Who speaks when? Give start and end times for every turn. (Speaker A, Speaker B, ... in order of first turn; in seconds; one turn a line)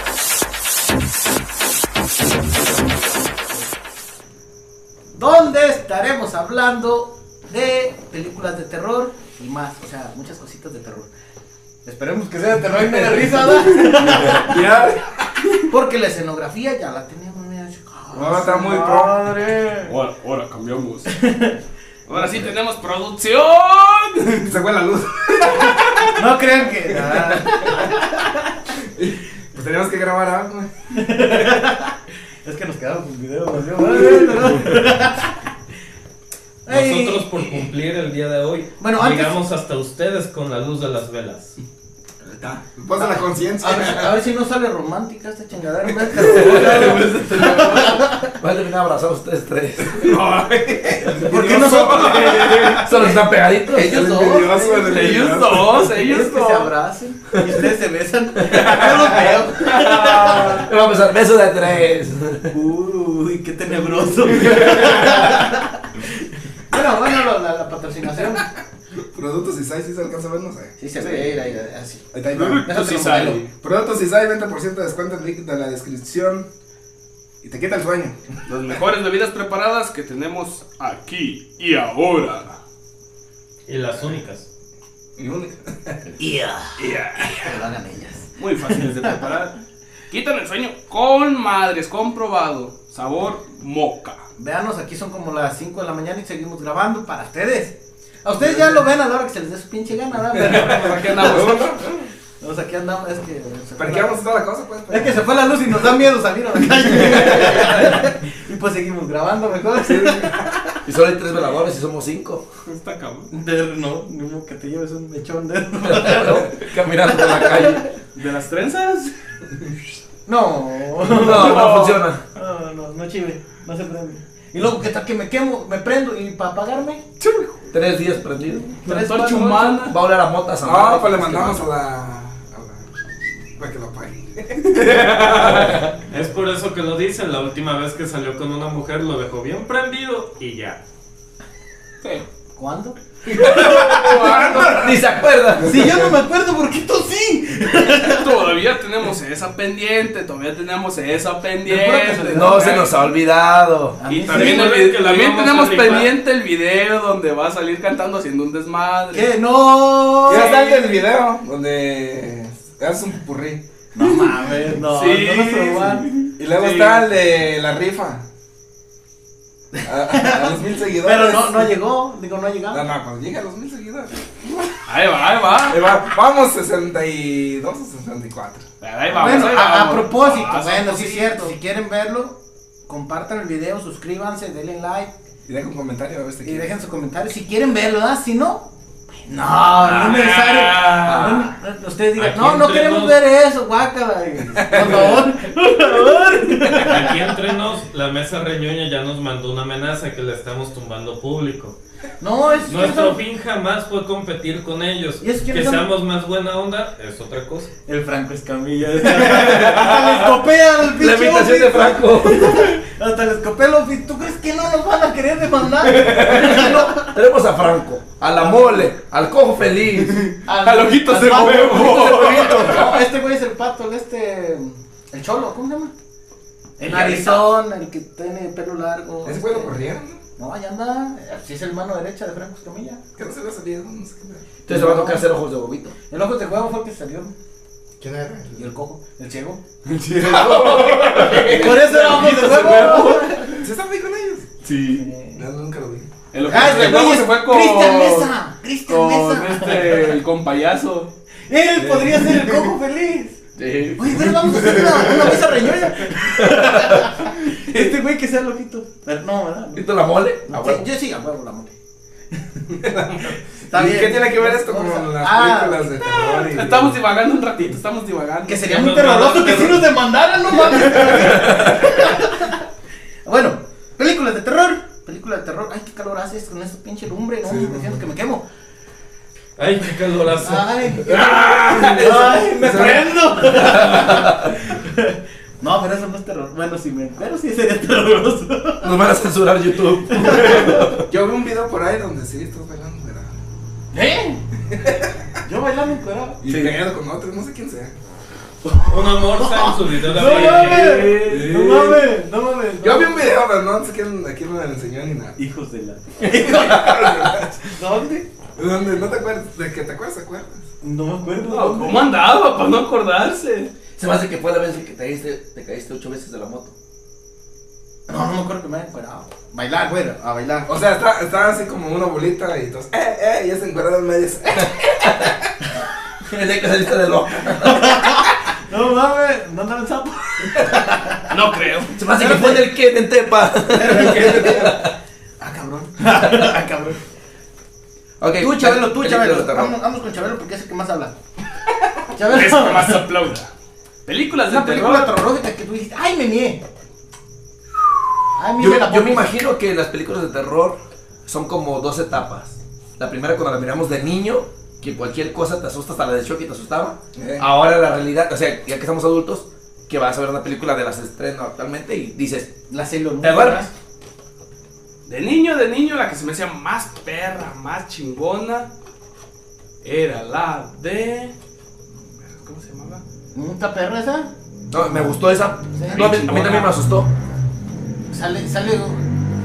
Speaker A: 5.1-11.1
Speaker A: 11.8-14.6
Speaker B: 12.7-14.3
Speaker C: 14.3-15.3
Speaker A: 15.7-19.9
Speaker C: 18.1-19.2
Speaker B: 19.8-21.1
Speaker A: 21.1-21.6
Speaker B: 22.1-24.5
Speaker C: 24.4-26.2
Speaker B: 25.7-26.1
Speaker A: 26.1-28.5
Speaker C: 26.9-27.9
Speaker C: 28.9-30.7
Speaker A: 30.9-35.4
Speaker A: 36.6-37.7
Speaker D: 36.7-41.5
Speaker A: 38.8-39.4
Speaker C: 42.2-44.1
Speaker A: 43.0-48.3
Speaker C: 46.0-46.9
Speaker E: 46.2-50.1
Speaker B: 46.4-48.0
Speaker C: 49.9-53.1
Speaker A: 51.2-53.2
Speaker B: 51.5-52.4
Speaker E: 52.8-54.0
Speaker C: 53.7-55.9
Speaker A: 53.7-60.7
Speaker B: 54.8-56.7
Speaker E: 57.3-57.6
Speaker E: 58.5-58.7
Speaker C: 58.5-59.3
Speaker B: 59.5-60.6
Speaker E: 60.3-62.5
Speaker A: 62.5-68.4
Speaker C: 64.5-65.1
Speaker C: 69.1-70.7
Speaker A: 70.8-73.4
Speaker E: 71.0-71.3
Speaker C: 72.1-72.7
Speaker B: 72.3-73.5
Speaker C: 73.5-76.5
Speaker C: 77.4-78.8
Speaker B: 78.5-82.6
Speaker D: 83.7-84.5
Speaker C: 85.2-86.0
Speaker A: 86.2-89.1
Speaker B: 86.8-87.6
Speaker B: 88.4-94.2
Speaker A: 94.4-101.7
Speaker C: 100.3-102.1
Speaker D: 100.5-100.9
Speaker B: 100.7-101.7
Speaker A: 102.4-104.2
Speaker C: 103.8-105.3
Speaker A: 104.9-110.6
Speaker C: 106.9-107.8
Speaker C: 109.8-110.5
Speaker E: 110.8-112.5
Speaker B: 112.7-113.3
Speaker A: 113.3-116.5
Speaker E: 115.8-117.8
Speaker A: 117.1-117.8
Speaker B: 118.1-119.1
Speaker A: 120.2-127.0
Speaker E: 121.0-122.2
Speaker B: 121.1-122.0
Speaker B: 127.2-127.5
Speaker E: 127.7-128.8
Speaker A: 128.8-129.9
Speaker B: 128.8-129.9
Speaker E: 129.8-131.7
Speaker C: 130.6-132.8
Speaker C: 133.6-135.9
Speaker E: 135.5-135.8
Speaker D: 136.1-140.8
Speaker B: 142.0-142.2
Speaker A: 142.6-144.9
Speaker C: 143.2-146.2
Speaker B: 143.4-144.9
Speaker E: 144.7-146.0
Speaker A: 145.6-148.4
Speaker B: 148.0-152.9
Speaker A: 151.6-152.8
Speaker E: 152.3-154.0
Speaker A: 154.0-154.7
Speaker B: 154.1-159.3
Speaker D: 154.3-156.1
Speaker A: 159.1-160.7
Speaker C: 160.3-163.6
Speaker B: 160.3-160.8
Speaker A: 163.9-166.3
Speaker B: 164.8-167.1
Speaker C: 166.4-168.2
Speaker A: 169.7-172.8
Speaker C: 169.8-171.7
Speaker C: 172.7-174.1
Speaker B: 174.9-175.8
Speaker C: 175.7-178.7
Speaker B: 178.8-181.5
Speaker A: 179.2-182.3
Speaker A: 182.9-185.1
Speaker C: 185.4-186.7
Speaker A: 186.4-197.3
Speaker B: 189.8-191.4
Speaker E: 191.0-191.5
Speaker D: 192.2-193.2
Speaker C: 194.6-195.2
Speaker D: 196.8-201.7
Speaker A: 202.2-203.2
Speaker D: 202.7-207.7
Speaker A: 205.2-205.8
Speaker A: 207.8-217.2
Speaker E: 209.3-210.2
Speaker E: 210.8-212.8
Speaker E: 215.8-220.3
Speaker A: 218.4-218.7
Speaker B: 220.1-222.9
Speaker A: 220.4-225.9
Speaker E: 222.0-222.9
Speaker A: 226.8-229.8
Speaker E: 226.8-227.5
Speaker C: 229.2-230.2
Speaker A: 230.4-233.0
Speaker C: 233.2-234.4
Speaker E: 234.6-235.9
Speaker A: 234.7-235.2
Speaker A: 236.1-237.3
Speaker C: 238.0-238.7
Speaker A: 238.5-239.6
Speaker B: 239.8-243.5
Speaker E: 240.2-242.9
Speaker C: 240.3-241.6
Speaker A: 241.2-243.6
Speaker C: 243.6-244.5
Speaker E: 244.6-245.1
Speaker A: 244.9-245.4
Speaker C: 245.4-246.1
Speaker B: 246.3-248.3
Speaker A: 246.4-250.1
Speaker B: 248.9-251.1
Speaker A: 251.5-253.3
Speaker C: 251.8-252.7
Speaker E: 253.6-255.2
Speaker A: 253.9-259.9
Speaker E: 256.3-257.0
Speaker B: 257.5-257.9
Speaker E: 259.7-260.9
Speaker A: 260.5-261.7
Speaker C: 262.7-267.0
Speaker A: 263.6-266.3
Speaker B: 266.1-268.6
Speaker A: 268.5-272.7
Speaker D: 268.6-269.9
Speaker E: 271.1-271.5
Speaker A: 273.2-278.4
Speaker C: 277.4-278.0
Speaker D: 279.6-280.8
Speaker A: 280.4-289.0
Speaker C: 281.0-283.5
Speaker B: 281.5-282.1
Speaker E: 283.5-284.5
Speaker E: 288.8-291.1
Speaker A: 290.1-290.9
Speaker C: 291.0-293.3
Speaker A: 293.9-294.4
Speaker C: 294.7-295.1
Speaker A: 295.4-296.7
Speaker C: 296.4-297.9
Speaker E: 296.4-296.7
Speaker A: 298.6-303.4
Speaker D: 298.8-301.0
Speaker B: 300.2-301.8
Speaker C: 301.2-302.1
Speaker C: 302.8-305.4
Speaker A: 305.4-308.3
Speaker C: 306.3-307.6
Speaker E: 306.3-307.0
Speaker C: 308.6-310.6
Speaker A: 310.8-312.1
Speaker B: 311.4-313.7
Speaker E: 314.0-316.7
Speaker A: 318.1-320.7
Speaker C: 320.7-325.3
Speaker E: 326.2-328.3
Speaker A: 327.6-331.3
Speaker B: 331.3-332.0
Speaker E: 331.8-334.9
Speaker A: 332.1-332.7
Speaker A: 333.7-334.8
Speaker C: 333.8-334.8
Speaker A: 335.4-337.0
Speaker E: 338.2-339.8
Speaker A: 338.3-341.1
Speaker A: 342.1-343.1
Speaker B: 342.2-343.5
Speaker B: 344.0-345.2
Speaker A: 344.5-346.6
Speaker A: 348.4-349.4
Speaker E: 348.6-362.5
Speaker C: 357.1-357.5
Speaker A: 362.7-363.7
Speaker E: 363.2-363.7
Speaker B: 365.1-368.7
Speaker B: 369.8-371.3
Speaker B: 372.2-373.0
Speaker A: 373.3-374.3
Speaker E: 374.7-377.1
Speaker A: 375.7-376.1
Speaker B: 375.9-376.8
Speaker A: 378.1-379.1